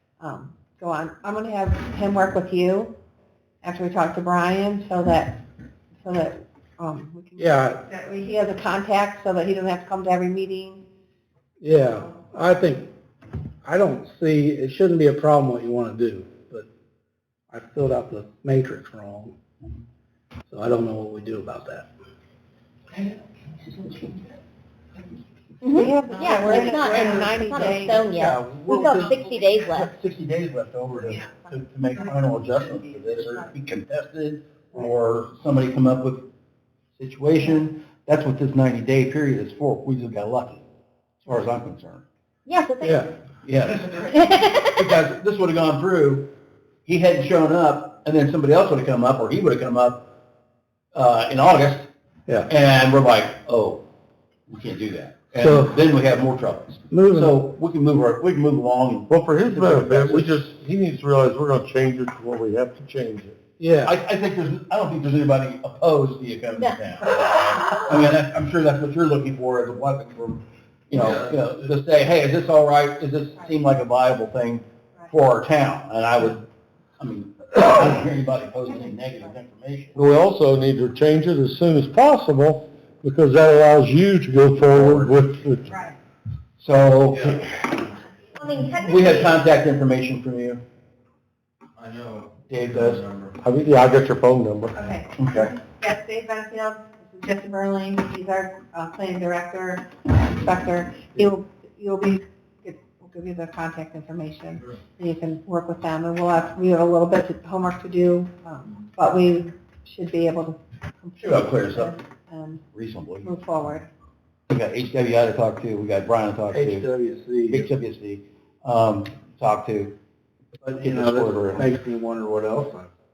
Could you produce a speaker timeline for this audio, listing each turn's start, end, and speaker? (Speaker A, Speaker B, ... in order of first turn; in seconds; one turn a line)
Speaker A: 0.2-2.9
Speaker A: 3.6-5.4
Speaker A: 6.0-10.8
Speaker B: 7.4-7.8
Speaker B: 11.6-12.9
Speaker B: 13.6-16.7
Speaker B: 17.5-19.4
Speaker B: 20.5-21.9
Speaker C: 25.6-29.9
Speaker A: 25.7-28.1
Speaker D: 27.6-36.3
Speaker D: 37.0-40.6
Speaker D: 41.2-42.0
Speaker C: 42.5-43.1
Speaker B: 42.8-43.1
Speaker D: 43.4-46.3
Speaker C: 44.1-44.8
Speaker D: 46.9-50.0
Speaker D: 50.9-51.9
Speaker D: 52.5-53.9
Speaker D: 54.5-60.5
Speaker B: 55.4-55.8
Speaker B: 56.9-57.4
Speaker E: 59.1-63.4
Speaker B: 63.6-64.0
Speaker D: 63.8-76.5
Speaker F: 71.0-71.3
Speaker D: 77.0-80.0
Speaker E: 80.0-85.8
Speaker D: 84.8-85.0
Speaker D: 86.6-87.7
Speaker C: 88.4-89.3
Speaker D: 88.6-90.6
Speaker F: 91.8-93.3
Speaker D: 92.5-93.1
Speaker E: 93.4-94.8
Speaker A: 94.8-112.6
Speaker D: 95.2-95.5
Speaker D: 111.2-112.0
Speaker D: 112.7-113.3
Speaker A: 113.2-113.9
Speaker D: 114.5-116.9
Speaker B: 116.5-117.7
Speaker D: 117.5-120.0
Speaker B: 120.6-122.9
Speaker D: 120.8-121.7